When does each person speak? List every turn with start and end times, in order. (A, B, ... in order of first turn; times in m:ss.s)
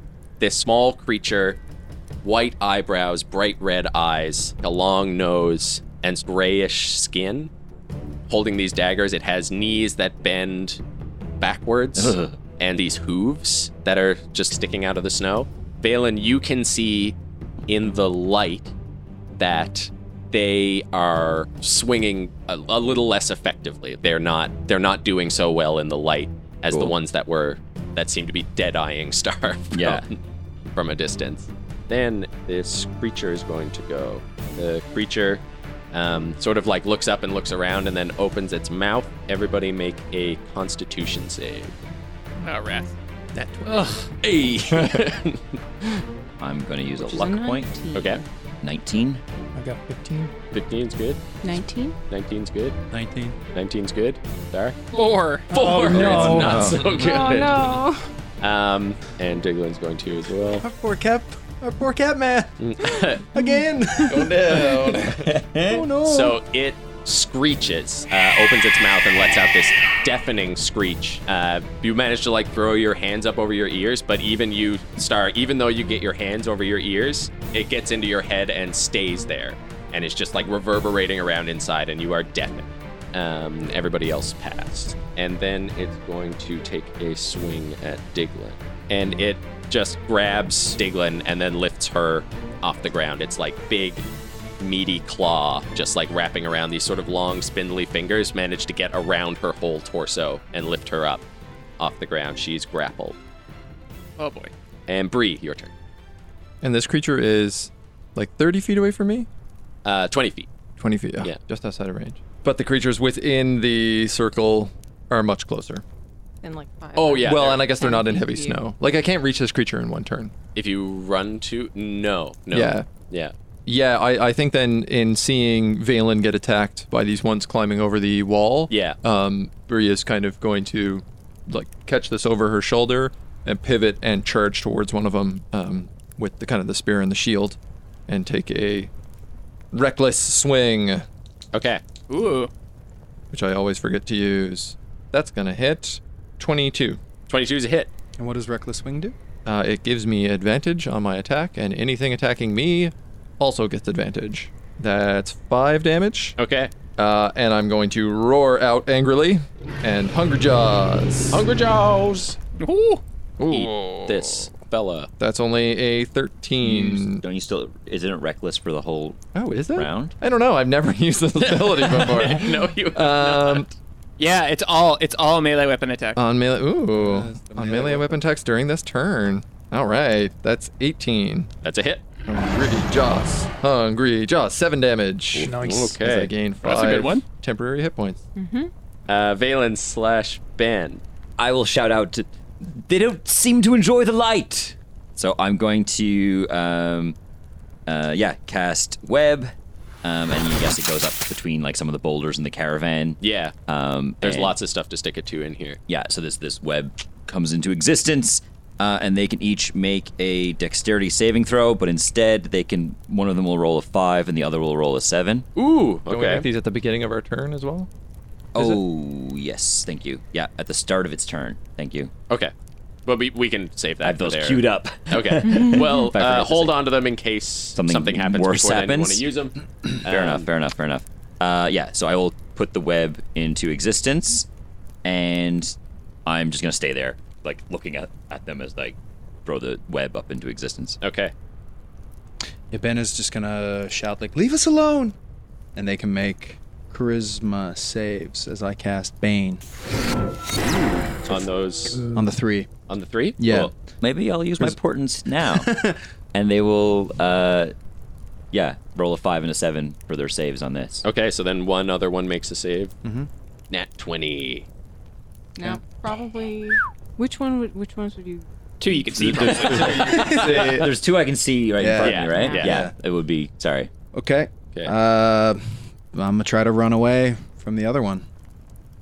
0:00.4-0:01.6 A
0:02.2-0:07.5 A
0:08.3-0:10.8 A
0:11.4-0:17.2 A
0:12.0-0:12.4 B
0:17.7-0:18.7 A
0:19.4-0:30.2 A
0:26.7-0:27.0 B
0:29.7-0:30.0 B
0:30.8-0:35.4 A
0:35.9-0:41.7 A
0:42.4-0:42.9 C
0:43.4-0:45.6 A
0:43.7-0:44.0 C
0:44.7-0:45.0 D
0:46.4-0:47.7 B
0:47.0-0:48.2 E
0:48.0-0:48.2 A
0:48.6-0:49.2 B
0:49.6-0:50.3 F
0:50.5-0:51.2 A
0:51.4-0:52.0 E
0:52.1-0:52.8 A
0:52.9-0:53.4 G
0:53.5-0:54.8 A
0:54.9-0:55.6 C
0:55.5-0:56.8 F
0:55.5-0:57.8 A
0:55.9-0:56.8 B
0:56.9-0:58.1 E
0:58.4-1:00.6 A
1:00.6-1:02.5 G
1:02.6-1:03.3 A
1:03.2-1:05.0 G
1:04.1-1:05.3 A
1:05.0-1:05.9 B
1:05.6-1:06.4 G
1:06.0-1:34.0 A
1:34.6-1:41.2 A
1:41.8-1:43.2 A
1:44.2-1:44.5 C
1:44.9-1:45.7 A
1:46.6-1:49.3 D
1:49.8-1:50.5 A
1:50.8-1:55.8 D
1:56.4-1:58.6 E
1:57.0-1:57.7 A
1:57.2-2:00.3 D
2:00.6-2:03.3 A
2:02.5-2:02.9 D
2:03.7-2:18.9 D
2:08.7-2:09.0 A
2:19.7-2:21.1 D
2:21.5-2:21.8 A
2:22.1-2:22.5 C
2:23.3-2:27.0 D
2:27.3-2:27.9 A
2:28.2-2:29.2 G
2:29.4-2:36.4 D
2:36.4-2:36.7 A
2:37.0-2:41.4 D
2:41.3-2:42.4 A
2:42.6-2:43.0 C
2:43.4-2:44.4 D
2:43.5-2:45.1 A
2:45.2-2:47.2 D
2:46.6-2:50.2 B
2:49.4-2:53.7 D
2:51.4-2:53.7 A
2:54.2-2:56.2 C
2:56.2-3:01.5 D
2:56.9-2:58.2 G
3:01.6-3:02.0 A
3:02.2-3:08.2 D
3:05.4-3:06.0 F
3:05.4-3:06.3 A
3:06.6-3:07.2 C
3:08.4-3:08.7 E
3:09.1-3:11.0 A
3:11.4-3:17.2 B
3:17.9-3:24.6 B
3:23.2-3:23.6 A
3:24.2-3:25.8 A
3:25.9-3:35.5 B
3:35.6-3:36.5 A
3:36.1-3:37.9 D
3:38.5-3:42.1 B
3:43.1-3:50.5 A
3:44.0-3:46.8 B
3:47.8-3:49.2 B
3:50.0-3:54.5 B
3:55.0-4:01.0 B
4:01.0-4:01.3 A
4:02.7-4:05.2 G
4:05.8-4:09.6 G
4:10.6-4:12.0 A
4:12.1-4:12.7 G
4:12.9-4:13.7 A
4:13.4-4:13.7 G
4:14.0-4:15.7 B
4:15.5-4:16.0 G
4:16.3-4:17.7 B
4:18.5-4:21.0 B
4:21.0-4:22.9 A
4:23.0-4:23.3 G
4:23.7-4:24.7 A
4:25.6-4:28.5 E
4:28.8-4:30.1 C
4:29.2-4:33.9 B
4:29.7-4:30.9 G
4:29.9-4:30.6 D
4:31.8-4:33.0 G
4:32.0-4:32.6 A
4:32.3-4:32.7 E
4:34.1-4:38.3 G